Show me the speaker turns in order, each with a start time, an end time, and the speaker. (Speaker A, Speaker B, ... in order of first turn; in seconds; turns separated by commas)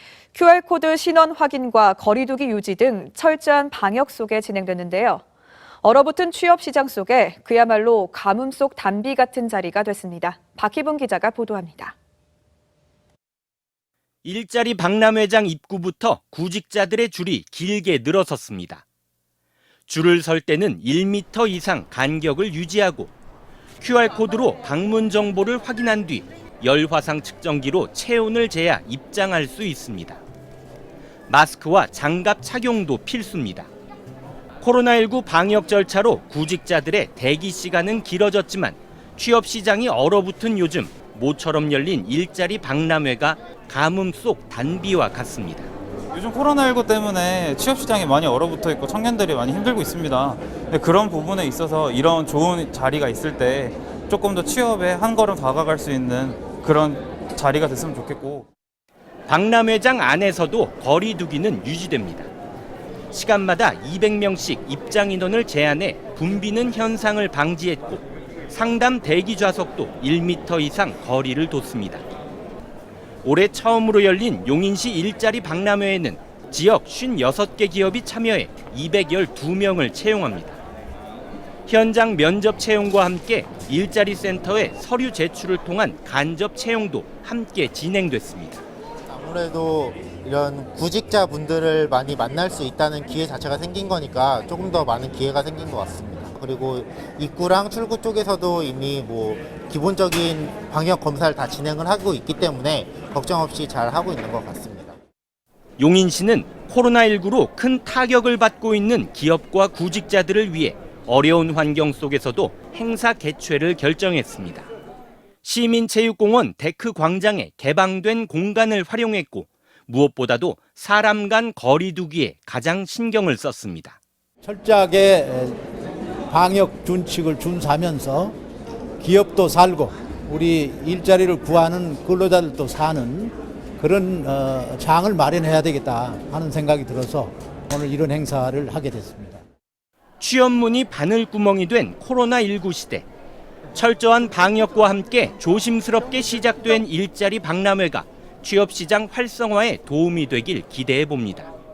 Speaker A: 0.3-5.2, Speaker A: 5.8-11.9, Speaker B: 14.2-18.8, Speaker B: 19.9-23.1, Speaker B: 23.8-30.2, Speaker B: 31.3-33.7, Speaker B: 34.6-45.7, Speaker C: 46.1-58.5, Speaker B: 59.3-62.3, Speaker B: 63.1-72.0, Speaker B: 73.2-80.6, Speaker B: 81.7-88.6, Speaker D: 89.1-105.0, Speaker B: 105.8-114.7, Speaker B: 115.4-124.0, Speaker E: 124.4-125.6, Speaker E: 126.3-128.3, Speaker E: 129.0-139.4, Speaker B: 140.2-143.1, Speaker B: 143.8-151.5